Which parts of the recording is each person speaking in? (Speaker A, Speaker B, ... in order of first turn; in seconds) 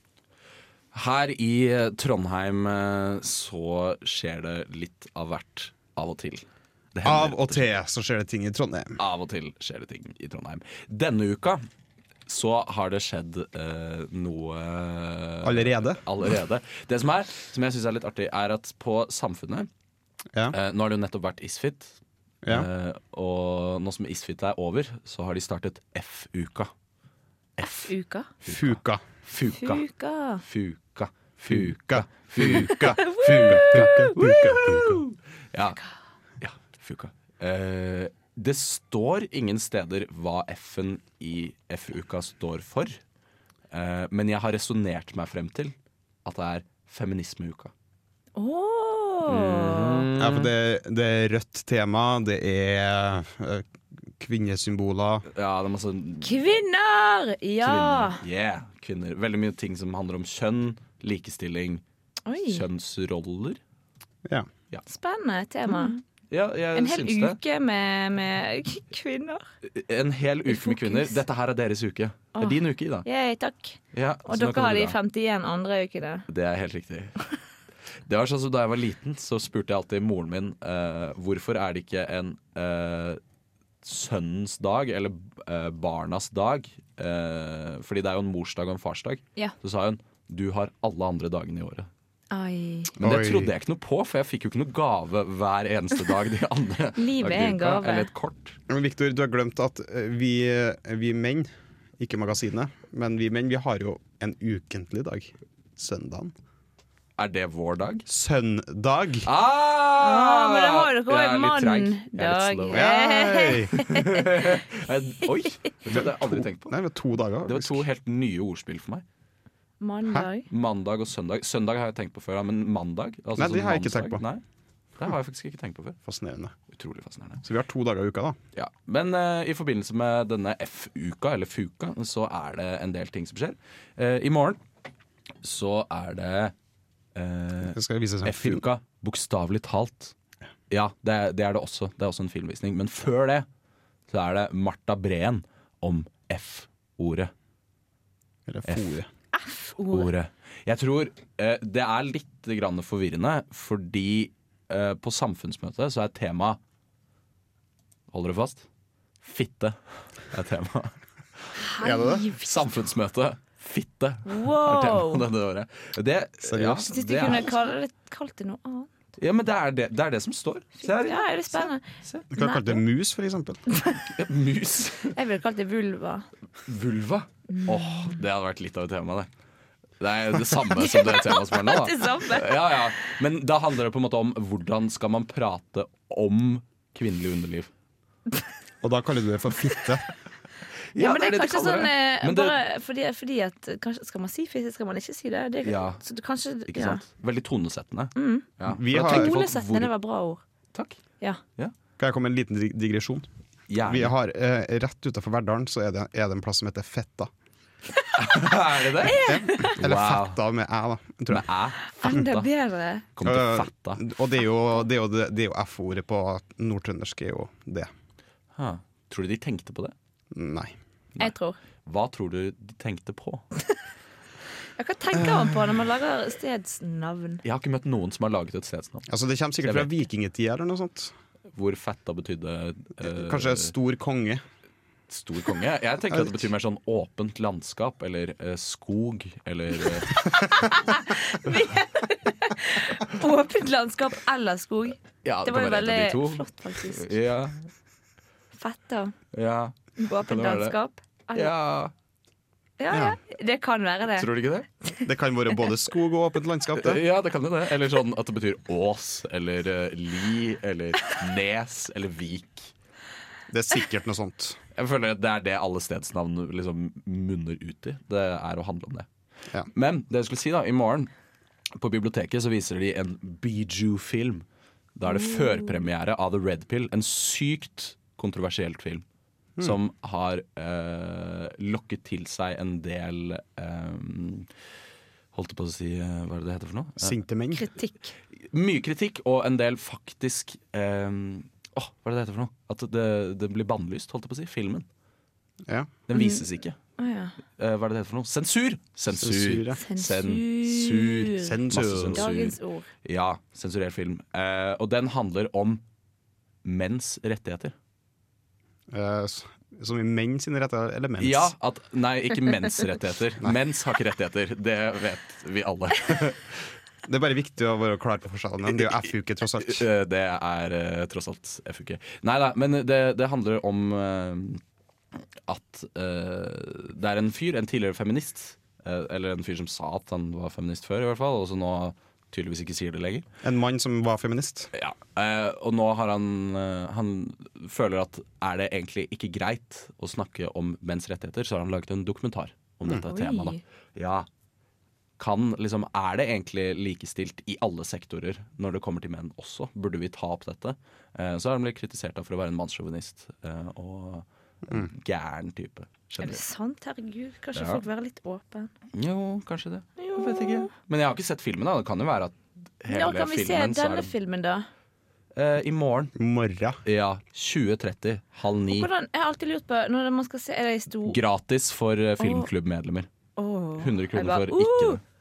Speaker A: 0.9-7.7, 9.0-11.6, 12.3-19.7, 20.5-22.0, 22.5-26.7, 27.6-27.9, 28.4-29.8, 30.4-35.8, 36.4-43.0, 43.7-47.7, 49.2-50.5, 55.3-56.6, 57.6-61.8, 62.4-63.6, 65.7-67.4, 69.6-73.0, 73.9-75.0, 76.3-77.2, 78.1-83.2, 83.8-91.9, 93.0-98.6, 107.2-108.0, 109.2-112.8, 113.7-116.7, 117.5-119.0, 120.5-124.4, 125.0-126.0, 126.7-127.4, 128.5-134.6, 135.4-136.5, 137.1-140.1, 140.7-143.4, 144.1-147.3, 148.7-149.0, 149.9-156.6, 158.1-158.6, 159.2-161.6, 162.4-167.6, 169.2-172.3, 174.1-175.1, 176.7-179.3, 180.0-187.7, 190.9-192.6, 195.6-196.0, 196.7-199.9, 200.7-201.0, 203.7-204.1, 208.2-210.4, 211.3-212.5, 213.2-214.1, 218.6-219.9, 221.8-223.4, 227.4-229.1, 229.6-229.9, 231.5-233.7, 235.1-240.6, 245.2-247.6, 249.3-250.8, 251.3-251.9, 254.1-254.7, 256.7-262.7, 264.7-269.1, 269.7-271.1, 271.8-274.4, 274.9-279.0, 279.6-284.5, 285.3-287.1, 288.5-294.9, 296.1-296.8, 297.6-305.8, 306.6-307.7, 311.2-316.7, 319.6-324.6, 325.5-333.2, 334.7-344.3, 345.2-356.4, 357.5-357.8, 358.9-364.1, 365.3-366.1, 366.8-368.9, 371.1-373.1, 373.8-375.0
Speaker B: 7.0-9.0, 15.4-16.0, 28.4-29.0, 31.5-35.0, 50.2-55.3, 93.0-93.5, 98.7-106.3, 108.1-109.3, 112.7-113.7, 115.9-117.8, 123.3-124.2, 126.0-126.5, 127.4-128.4, 137.6-138.6, 148.5-149.1, 161.8-162.2, 166.4-166.9, 172.3-173.6, 188.8-190.1, 198.7-199.3, 202.0-203.3, 203.8-207.3, 209.2-211.5, 213.2-217.9, 220.3-220.8, 225.2-225.5, 229.1-231.1, 233.0-234.4, 252.9-253.2, 255.0-257.0, 263.5-264.6, 287.0-287.6, 295.6-295.9, 299.1-299.8, 301.4-302.3, 308.9-311.5, 317.0-319.8, 333.4-334.7, 366.1-366.8
Speaker C: 27.6-28.3, 29.6-30.4, 32.7-35.0, 48.3-50.1, 56.2-58.2, 62.2-62.6, 64.9-66.0, 66.7-69.4, 70.5-71.2, 72.3-76.2, 92.3-92.9, 97.0-98.1, 110.0-114.5, 119.8-120.5, 149.3-150.1, 161.6-162.7, 164.2-165.2, 166.9-168.9, 170.8-171.8, 172.3-172.8, 175.1-176.3, 177.5-178.1, 180.8-182.7, 191.0-197.0, 198.2-200.4, 209.0-209.7, 211.9-213.1, 221.2-221.6, 224.8-227.4, 240.3-247.1, 248.5-249.1, 250.0-251.5, 252.8-254.3, 287.5-288.1, 296.1-296.4, 297.0-297.3, 299.7-301.6, 302.1-302.9, 343.1-343.6, 356.2-358.7, 360.0-360.7, 362.9-364.7, 368.7-371.2, 372.2-372.5, 373.4-375.0